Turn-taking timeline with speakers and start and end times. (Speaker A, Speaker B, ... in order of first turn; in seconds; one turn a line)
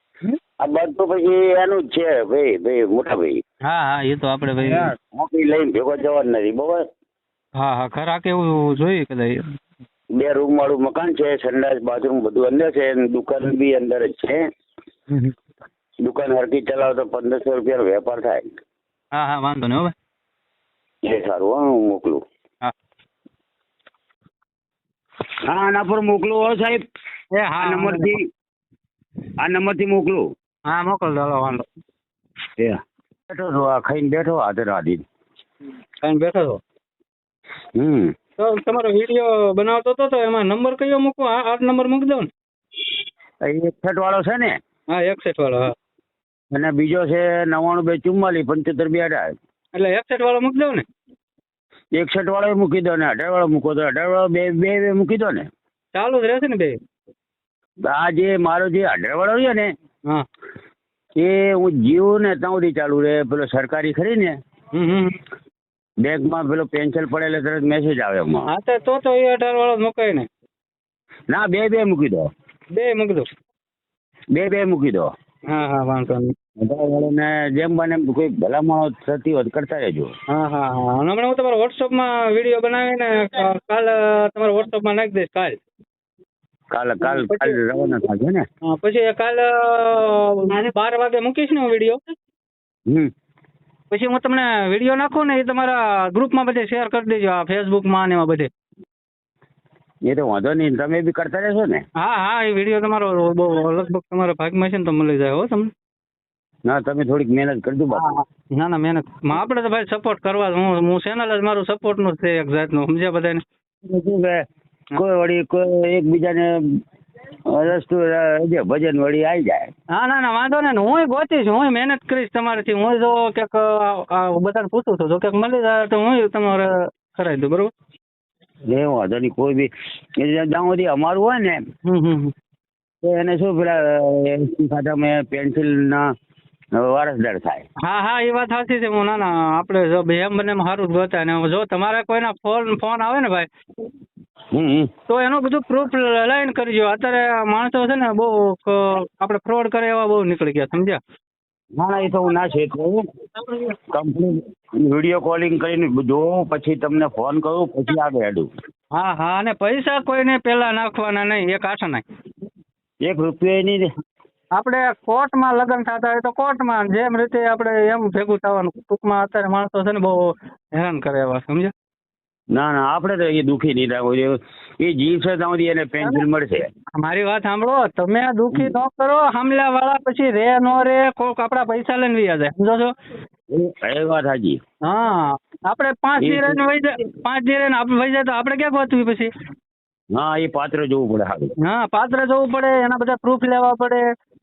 Speaker A: 0.6-3.4
Speaker B: 3.6-4.9
Speaker A: 5.1-6.9
Speaker B: 7.6-9.6
Speaker A: 10.2-14.4
Speaker A: 16.0-18.4
Speaker B: 19.1-19.9
Speaker A: 21.1-22.2
Speaker A: 25.5-26.8
Speaker B: 27.4-28.1
Speaker A: 27.6-28.2
Speaker A: 29.4-30.2
Speaker B: 30.7-31.7
Speaker A: 32.6-35.0
Speaker B: 36.0-36.6
Speaker A: 37.8-38.1
Speaker B: 38.4-42.3
Speaker A: 43.4-44.6
Speaker B: 44.9-45.8
Speaker A: 46.5-49.3
Speaker B: 49.7-50.9
Speaker A: 52.0-55.5
Speaker B: 55.9-56.8
Speaker A: 57.9-59.7
Speaker A: 61.2-64.4
Speaker B: 64.7-65.2
Speaker A: 66.0-68.5
Speaker B: 68.5-70.3
Speaker A: 71.3-72.3
Speaker B: 72.7-73.3
Speaker A: 74.3-75.1
Speaker B: 75.5-76.3
Speaker A: 76.6-80.1
Speaker B: 80.3-85.6
Speaker A: 86.7-88.4
Speaker B: 87.0-87.6
Speaker B: 88.6-92.0
Speaker B: 93.9-98.5
Speaker A: 100.1-101.8
Speaker B: 102.0-105.7
Speaker A: 106.7-108.2
Speaker B: 108.0-113.4
Speaker A: 113.8-116.8
Speaker A: 117.5-119.7
Speaker B: 119.9-127.7
Speaker A: 128.7-131.6
Speaker B: 131.9-132.3
Speaker A: 133.0-136.1
Speaker A: 136.8-137.6
Speaker B: 137.8-143.5
Speaker A: 144.5-144.9
Speaker B: 145.1-151.0
Speaker A: 151.8-153.0
Speaker A: 153.9-158.5
Speaker B: 158.9-162.0
Speaker A: 163.0-163.9
Speaker B: 164.6-171.7
Speaker A: 172.5-176.7
Speaker B: 177.0-182.9
Speaker A: 183.5-184.6
Speaker B: 184.8-189.3
Speaker A: 186.2-186.6
Speaker A: 190.2-191.5
Speaker B: 191.6-194.1